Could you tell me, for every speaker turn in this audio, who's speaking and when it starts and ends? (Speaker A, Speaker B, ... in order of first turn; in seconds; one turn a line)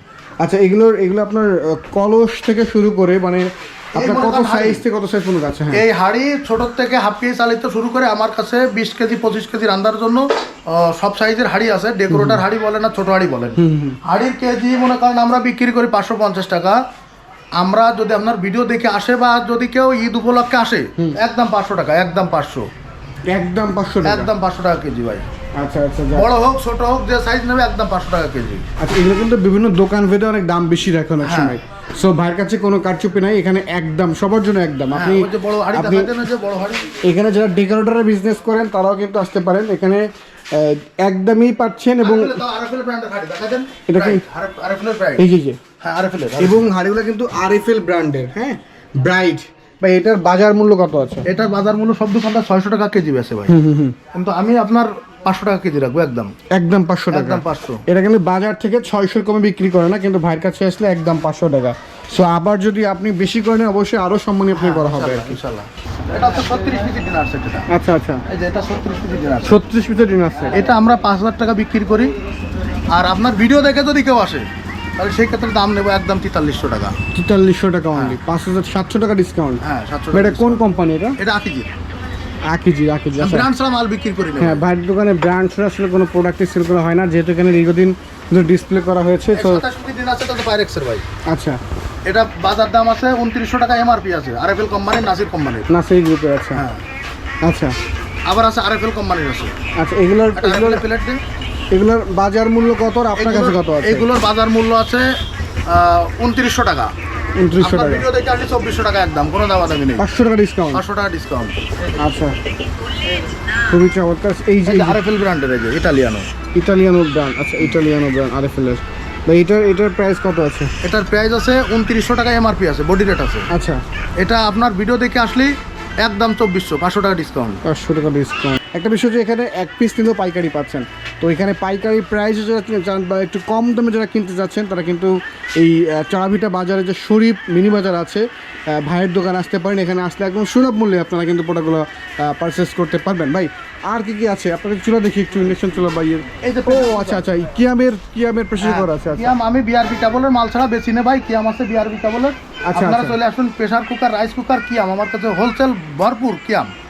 Speaker A: 0.4-5.8
Speaker B: 3.9-4.8
Speaker B: 5.7-16.8
Speaker A: 12.1-12.4
Speaker A: 13.6-14.0
Speaker B: 17.6-22.7
Speaker A: 23.3-24.3
Speaker B: 24.0-25.2
Speaker A: 25.5-26.3
Speaker B: 26.1-28.6
Speaker A: 28.8-36.2
Speaker B: 31.2-31.6
Speaker B: 34.9-36.8
Speaker A: 37.0-42.4
Speaker B: 42.0-45.2
Speaker A: 43.9-44.2
Speaker A: 45.2-45.6
Speaker B: 45.8-46.7
Speaker A: 46.4-51.3
Speaker B: 51.2-53.6
Speaker A: 53.5-54.0
Speaker B: 54.1-56.3
Speaker A: 56.5-65.4
Speaker B: 57.1-57.8
Speaker B: 64.5-67.7
Speaker A: 67.7-68.2
Speaker B: 68.3-69.6
Speaker A: 69.4-70.6
Speaker B: 70.5-72.1
Speaker B: 72.9-74.5
Speaker B: 75.0-76.9
Speaker A: 77.1-79.6
Speaker B: 79.6-80.6
Speaker A: 80.1-81.2
Speaker B: 81.2-81.7
Speaker A: 82.5-83.5
Speaker B: 83.2-84.6
Speaker A: 84.4-89.6
Speaker B: 89.3-91.0
Speaker A: 91.3-91.6
Speaker B: 92.0-95.7
Speaker A: 95.7-96.6
Speaker B: 96.5-96.8
Speaker A: 97.4-97.7
Speaker B: 98.3-99.5
Speaker A: 99.8-100.8
Speaker B: 100.4-101.2
Speaker A: 101.7-104.1
Speaker B: 103.2-105.1
Speaker B: 105.7-106.9
Speaker A: 107.4-108.1
Speaker B: 107.6-110.1
Speaker A: 110.0-110.8
Speaker B: 110.7-111.8
Speaker A: 112.0-112.3
Speaker A: 113.7-115.0
Speaker B: 114.7-116.3
Speaker A: 116.5-120.7
Speaker B: 120.8-123.5
Speaker A: 123.5-123.8
Speaker B: 124.2-127.6
Speaker A: 127.6-149.3
Speaker B: 146.4-147.2
Speaker B: 148.6-156.7
Speaker A: 152.6-153.2